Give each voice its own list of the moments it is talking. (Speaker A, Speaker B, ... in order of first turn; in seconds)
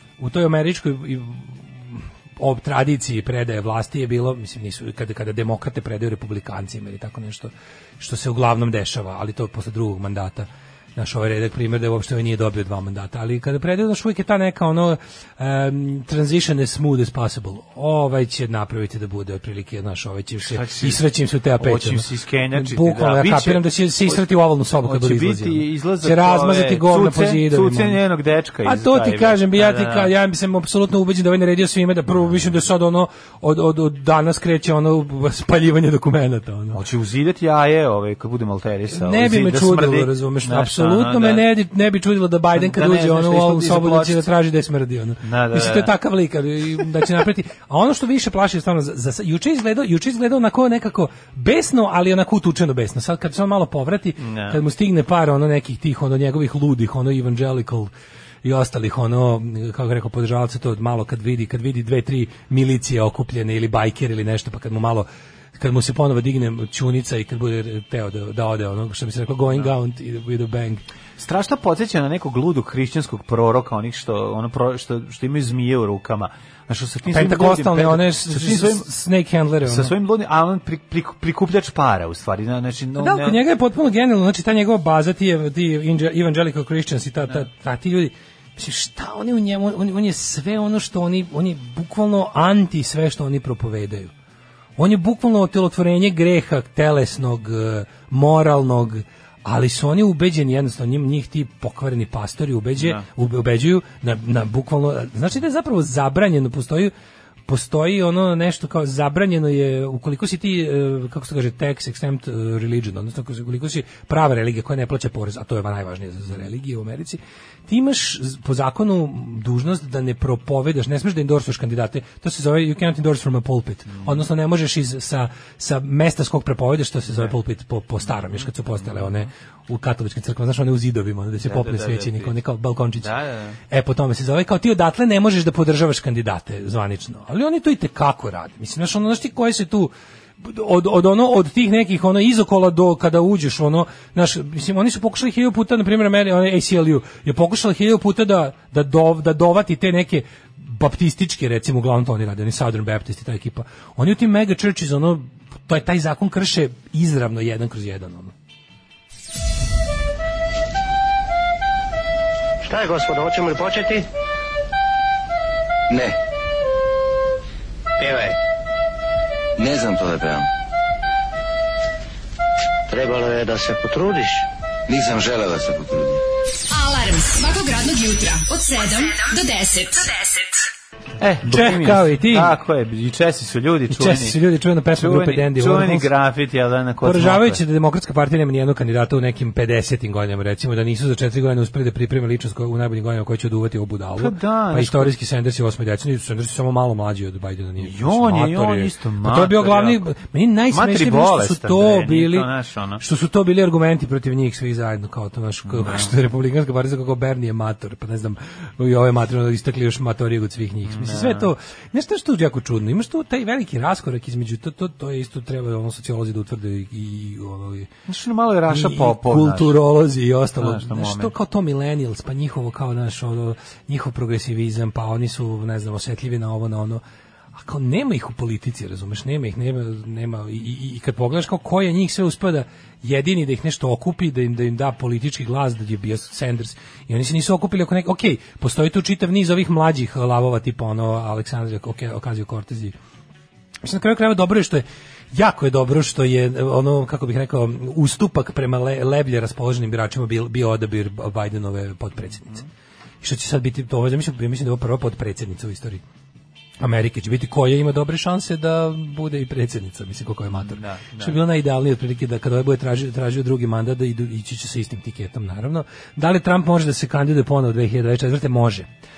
Speaker A: 0.2-28.0, 28.6-36.8, 38.9-57.9, 58.4-70.8, 77.1-79.9, 83.0-94.1, 94.8-106.9, 107.5-133.1, 133.7-158.3, 181.4-182.5, 183.9-186.1, 187.0-202.5, 203.0-217.9, 218.7-227.0, 227.6-242.9, 243.8-252.6, 253.2-256.0, 256.8-268.9
Speaker B: 20.4-21.0, 21.6-24.2, 24.8-30.1, 36.7-41.4, 42.5-44.3, 45.2-45.9, 54.2-54.6, 71.2-78.9, 79.6-83.4, 102.8-103.0, 123.9-124.2, 127.1-127.3, 128.0-129.3, 131.4-132.4, 133.0-133.6, 181.2-184.4, 184.9-187.6, 194.2-195.2, 197.8-200.1, 200.7-203.0, 205.7-206.1, 210.8-211.5, 218.1-219.8, 220.6-221.3, 260.5-261.4
Speaker C: 162.6-164.1, 168.0-168.4, 172.9-174.4
Speaker D: 169.6-170.4, 174.9-176.2
Speaker E: 176.7-180.6